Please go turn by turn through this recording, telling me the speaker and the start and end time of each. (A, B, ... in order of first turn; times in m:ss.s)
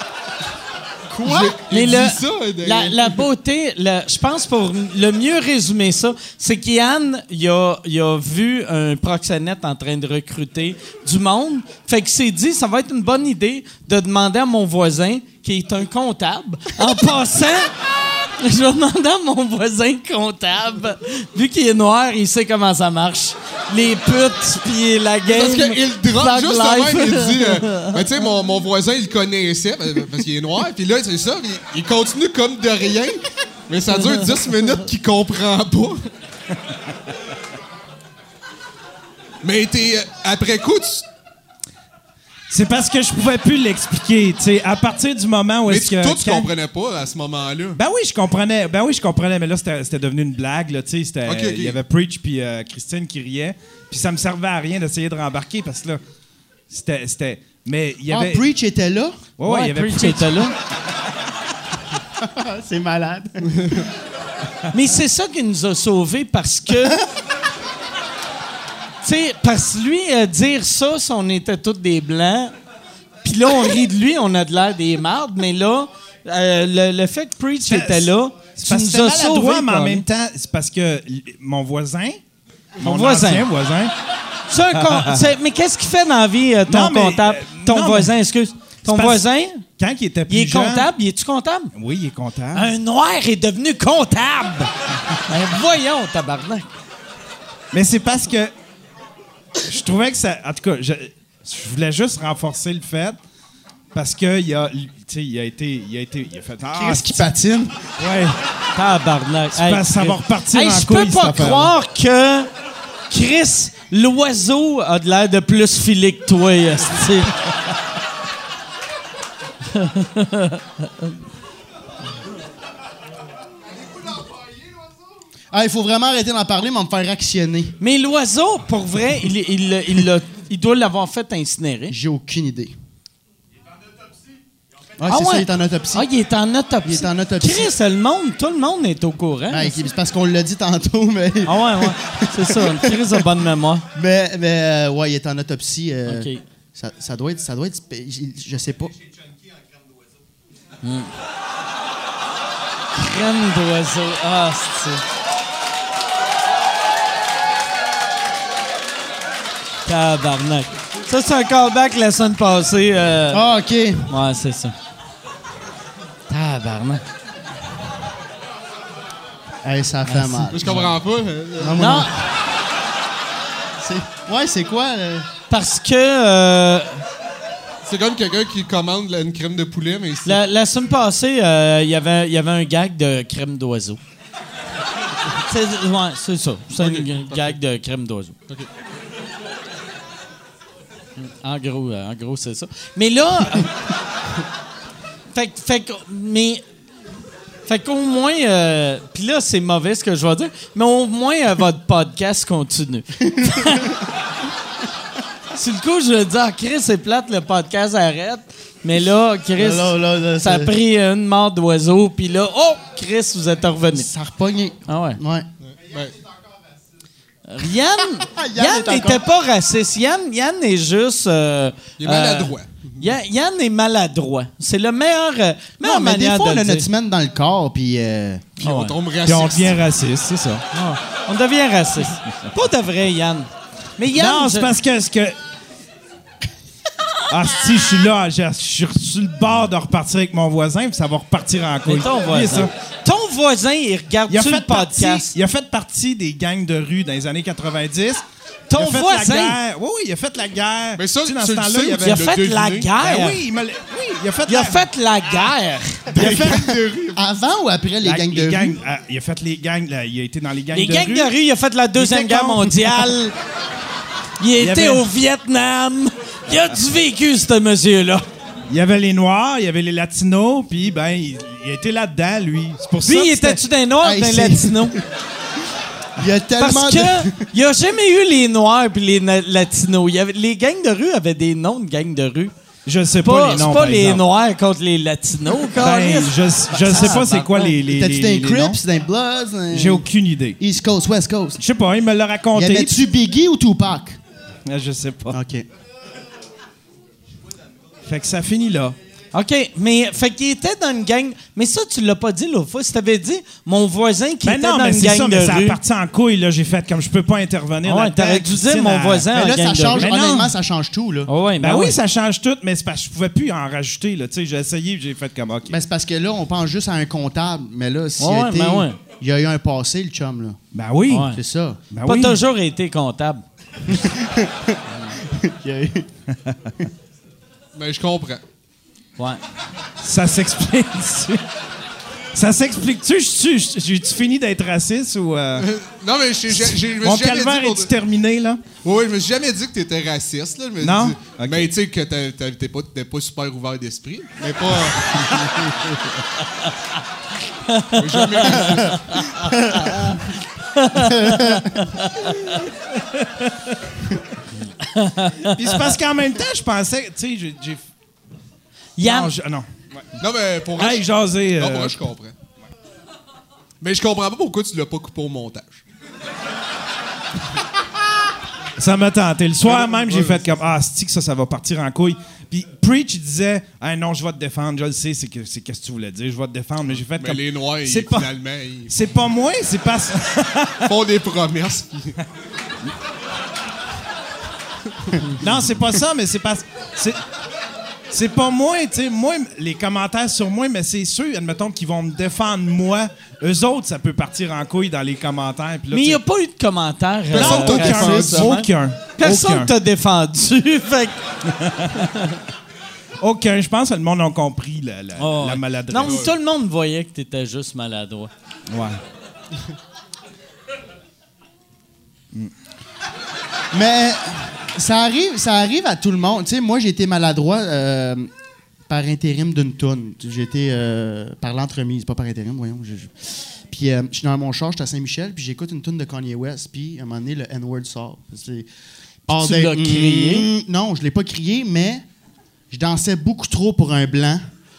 0:01.1-0:01.6 A
0:01.2-0:03.2 B
0:01.7-0:17.7 C
0:18.4-0:27.9 C
0:25.2-0:36.0 B
0:39.4-0:41.1 B
0:42.5-0:46.5 D
0:45.6-0:47.8 B
0:47.8-0:56.0 D
0:51.2-0:51.8 B
0:56.7-0:58.4 D
0:58.1-0:59.2 A
0:59.4-1:00.5 D
0:59.4-1:00.6 C
1:02.2-1:03.8 A
1:04.7-1:07.0 C
1:06.7-1:07.0 A
1:09.0-1:12.5 C
1:13.2-1:20.0 C
1:17.6-1:22.2 D
1:22.8-1:23.4 C
1:22.8-1:23.9 D
1:24.5-1:29.6 C
1:24.7-1:25.3 D
1:26.7-1:28.1 D
1:28.8-1:30.9 D
1:30.3-1:31.7 C
1:31.7-1:32.7 D
1:32.5-1:34.7 C
1:35.3-1:36.7 C
1:37.7-1:38.5 D
1:39.6-1:43.2 D
1:43.9-1:47.2 D
1:46.7-1:47.9 A
1:48.0-1:48.4 D
1:48.7-1:52.5 C
1:49.6-1:51.7 D
1:53.1-1:57.3 C
1:59.7-2:01.1 C
2:05.5-2:07.8 A
2:07.8-2:11.9 C
2:11.9-2:12.8 A
2:15.0-2:16.1 A
2:15.1-2:19.8 C
2:16.8-2:17.7 A
2:19.5-2:23.2 A
2:21.4-2:23.8 C
2:23.9-2:29.0 A
2:26.0-2:26.4 C
2:30.8-2:31.1 C
2:32.9-2:35.0 C
2:39.8-2:43.5 C
2:43.3-2:44.1 A
2:44.1-2:44.7 C
2:46.3-2:47.0 C
2:49.6-2:50.9 A
2:50.1-2:50.9 C
2:50.5-2:51.8 B
2:51.6-2:52.2 A
2:51.8-2:52.1 C
2:53.8-2:55.3 A
2:55.5-2:57.0 C
2:57.8-3:00.4 B
3:00.2-3:04.0 C
3:05.4-3:08.3 C
3:06.8-3:07.5 B
3:11.2-3:13.9 C
3:15.3-3:16.6 C
3:17.6-3:23.9 C
3:23.2-3:24.0 A
3:25.5-3:34.1 C
3:29.6-3:30.8 A
3:33.9-3:35.5 A
3:34.9-3:35.2 C
3:35.6-3:36.2 B
3:37.5-3:46.9 C
3:38.2-3:39.2 A
3:42.0-3:43.1 B
3:45.8-3:48.5 A
3:48.6-3:49.0 C
3:48.6-3:49.8 B
3:49.2-3:50.6 D
3:50.7-3:54.7 C
3:54.1-3:55.4 D
3:57.3-4:02.7 D
4:01.8-4:05.3 C
4:04.3-4:12.2 D
4:08.7-4:09.6 C
4:11.0-4:12.9 B
4:12.0-4:13.4 C
4:13.0-4:14.8 D
4:14.4-4:16.0 C
4:16.1-4:17.2 B
4:16.2-4:16.7 D
4:16.2-4:18.8 A
4:18.0-4:21.3 D
4:20.7-4:23.3 C
4:22.0-4:23.1 D
4:24.4-4:28.2 C
4:24.6-4:25.0 D
4:28.7-4:33.6 D
4:33.0-4:35.0 C
4:34.0-4:35.0 A
4:36.2-4:37.5 A
4:36.6-4:42.5 C
4:42.8-4:44.2 D
4:43.2-4:47.8 C
4:45.6-4:48.8 D
4:47.8-4:50.1 A
4:49.7-4:50.6 D
4:50.6-4:51.6 A
4:51.6-4:53.0 D
4:52.5-4:54.2 A
4:54.6-4:55.4 D
4:55.3-4:55.6 A
4:58.0-4:59.0 D
4:59.3-5:05.8 C
5:04.4-5:09.3 D
5:07.8-5:10.1 C
5:09.3-5:11.3 A
5:10.0-5:10.5 D
5:11.3-5:12.0 C
5:11.6-5:15.8 D
5:15.7-5:20.6 A
5:18.2-5:19.0 C
5:20.7-5:21.4 D
5:21.1-5:21.4 C
5:21.3-5:21.8 A
5:21.9-5:22.4 D
5:22.0-5:23.4 C
5:23.8-5:26.1 A
5:24.9-5:25.2 C
5:26.3-5:26.6 D
5:27.7-5:28.4 B
5:30.0-5:31.4 D
5:32.3-5:35.7 D
5:35.6-5:37.9 B
5:36.5-5:38.6 D
5:38.8-5:45.7 B
5:40.8-5:41.7 D
5:47.7-5:52.7 C
5:47.9-5:49.4 B
5:49.4-5:50.2 A
5:51.0-5:51.8 A
5:54.8-5:55.9 C
5:55.4-5:57.8 D
5:59.0-5:59.3 C
5:59.0-6:00.0 D
6:00.2-6:02.3 B
6:00.8-6:02.0 D
6:03.8-6:05.8 B
6:08.8-6:18.3 D
6:09.6-6:10.4 B
6:16.9-6:18.9 B
6:18.9-6:20.9 D
6:20.8-6:22.2 B
6:25.2-6:27.2 D
6:28.1-6:36.2 D
6:35.9-6:41.2 C
6:37.3-6:38.6 B
6:37.3-6:39.7 D
6:41.5-6:42.0 D
6:43.2-6:46.2 D
6:45.2-6:48.3 C
6:46.0-6:46.3 B
6:48.7-6:49.0 D
6:53.7-6:58.3 A
6:58.9-7:08.7 A
7:09.3-7:10.5 C
7:09.3-7:12.0 A
7:12.7-7:14.4 A